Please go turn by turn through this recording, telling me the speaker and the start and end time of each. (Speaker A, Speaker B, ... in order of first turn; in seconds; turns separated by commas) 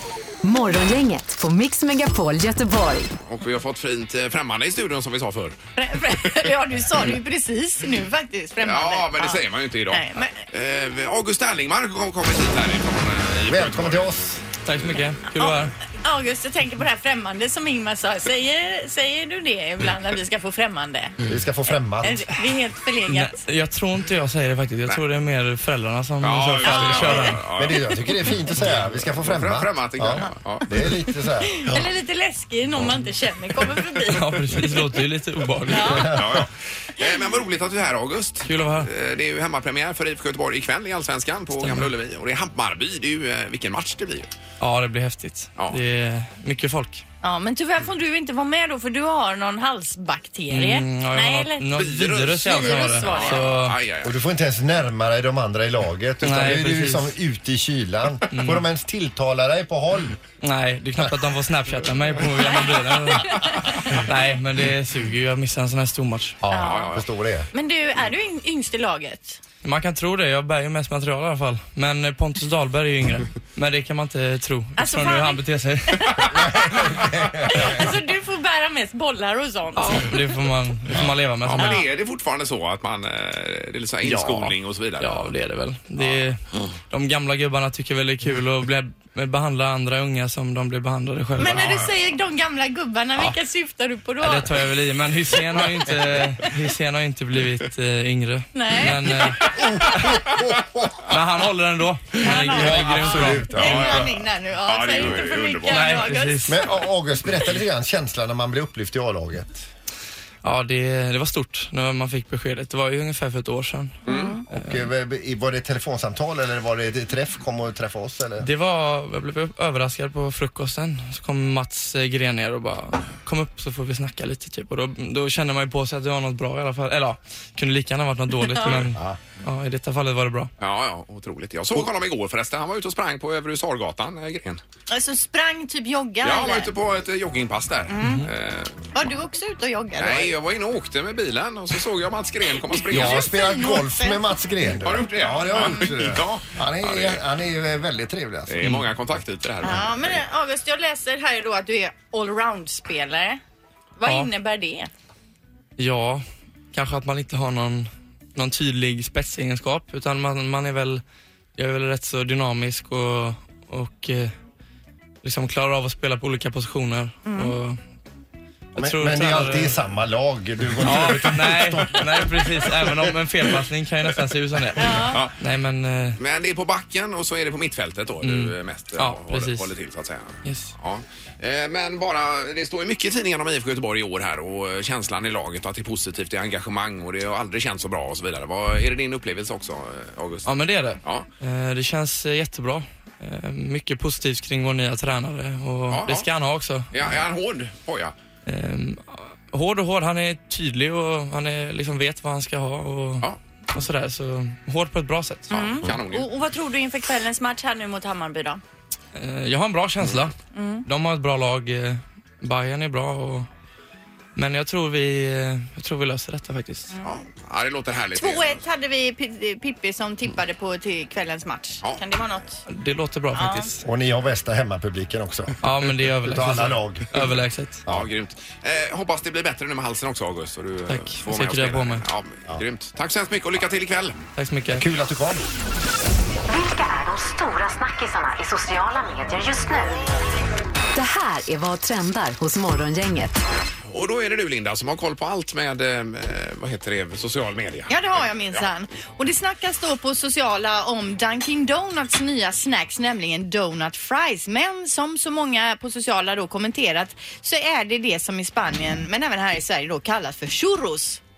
Speaker A: 0.4-3.1, Speaker B: 3.2-5.6, Speaker C: 5.8-10.3, Speaker B: 8.6-14.1, Speaker D: 13.5-14.4, Speaker E: 14.7-15.7, Speaker C: 15.3-21.1, Speaker D: 21.3-22.3, Speaker C: 22.0-23.4, Speaker E: 23.1-27.4, Speaker B: 26.2-30.7, Speaker C: 26.6-27.3, Speaker D: 27.6-31.9, Speaker C: 31.4-34.6, Speaker E: 34.1-36.2, Speaker C: 35.7-36.1, Speaker B: 36.1-44.3, Speaker E: 38.5-38.9, Speaker E: 41.6-41.9, Speaker E: 44.6-47.0, Speaker C: 47.2-51.6, Speaker E: 50.5-53.8, Speaker B: 51.8-54.2, Speaker C: 52.5-53.5, Speaker D: 54.0-60.2, Speaker E: 56.2-57.1, Speaker E: 58.3-58.6, Speaker E: 60.4-66.4, Speaker C: 63.1-63.6, Speaker D: 66.4-67.5, Speaker C: 66.5-67.0, Speaker B: 66.6-67.0, Speaker C: 67.5-69.4, Speaker E: 69.6-76.3, Speaker C: 74.8-75.4, Speaker C: 75.9-76.3, Speaker D: 76.6-77.7, Speaker C: 77.5-80.1, Speaker E: 79.8-81.8, Speaker B: 81.4-85.3, Speaker E: 85.0-91.8, Speaker C: 91.4-94.5, Speaker E: 94.2-100.2, Speaker C: 98.5-99.2, Speaker D: 99.6-101.0, Speaker E: 101.1-103.9, Speaker C: 102.2-106.6, Speaker D: 102.5-104.0, Speaker B: 103.5-104.1, Speaker B: 104.7-106.1, Speaker E: 105.7-106.6, Speaker D: 106.5-109.7, Speaker E: 110.4-114.0, Speaker B: 114.1-114.3, Speaker C: 114.1-114.4, Speaker E: 114.5-114.8, Speaker D: 114.5-118.5, Speaker E: 118.4-130.5, Speaker B: 130.6-134.6, Speaker C: 134.9-136.7, Speaker B: 136.2-138.8, Speaker C: 137.9-138.2, Speaker E: 138.0-138.3, Speaker C: 138.9-140.3, Speaker B: 140.0-143.3, Speaker C: 142.9-144.3, Speaker D: 142.9-148.7, Speaker B: 144.8-147.2, Speaker B: 148.5-150.2, Speaker C: 149.6-153.4, Speaker C: 154.0-154.9, Speaker E: 154.1-154.3, Speaker E: 155.8-161.0, Speaker E: 161.6-164.3, Speaker E: 165.2-167.8, Speaker C: 167.2-167.5, Speaker E: 168.8-169.8, Speaker D: 168.8-173.1, Speaker E: 170.8-176.2, Speaker C: 174.8-175.2, Speaker B: 176.2-190.5, Speaker E: 178.2-179.7, Speaker E: 180.4-180.7, Speaker E: 190.5-197.2, Speaker B: 195.9-196.3, Speaker B: 196.9-198.1, Speaker E: 198.5-205.6, Speaker C: 205.5-208.6, Speaker B: 205.5-206.3, Speaker E: 209.2-210.3, Speaker C: 210.6-210.8, Speaker E: 210.8-213.5, Speaker E: 214.4-217.0, Speaker B: 217.0-218.6, Speaker C: 218.2-222.6, Speaker E: 222.7-223.8, Speaker C: 223.3-223.7, Speaker D: 223.8-225.6, Speaker E: 225.6-227.8, Speaker D: 226.2-227.3, Speaker B: 227.9-234.2, Speaker E: 230.9-232.1, Speaker E: 234.4-234.8, Speaker D: 234.7-235.4, Speaker A: 236.5-240.0, Speaker A: 240.9-243.4, Speaker B: 243.9-248.6, Speaker C: 247.9-261.2